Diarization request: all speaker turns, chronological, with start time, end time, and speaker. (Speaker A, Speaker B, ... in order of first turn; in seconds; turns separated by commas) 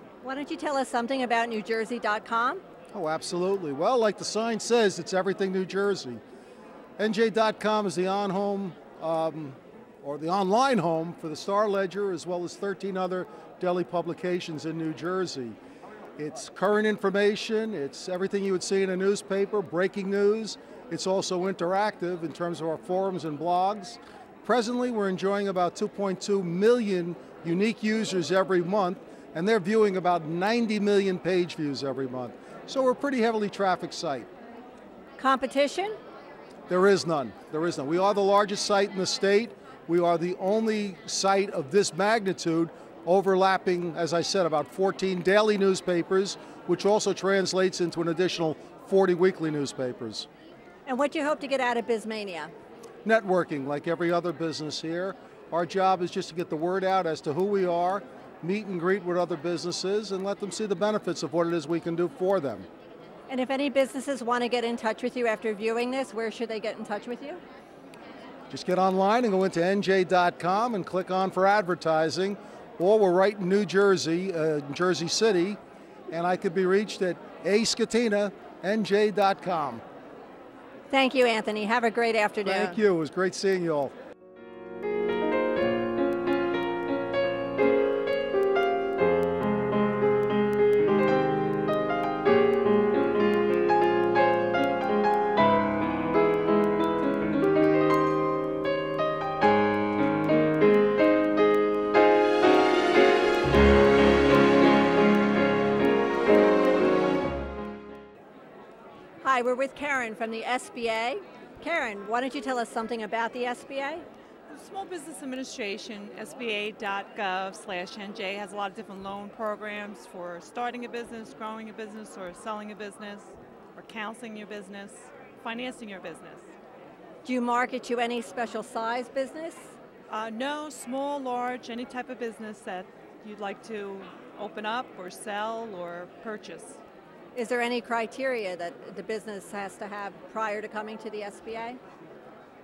Speaker A: 0.2-2.6, Speaker B: 2.9-6.2, Speaker B: 7.0-15.6, Speaker B: 16.2-34.3, Speaker A: 35.2-36.0, Speaker B: 36.7-50.3, Speaker A: 50.9-52.5, Speaker B: 53.0-62.7, Speaker A: 63.3-67.4, Speaker B: 68.5-75.6, Speaker B: 76.1-79.8, Speaker A: 80.9-82.8, Speaker B: 82.4-83.9, Speaker A: 109.2-114.0, Speaker C: 114.5-126.5, Speaker A: 127.2-129.7, Speaker C: 130.1-136.8, Speaker A: 137.3-141.8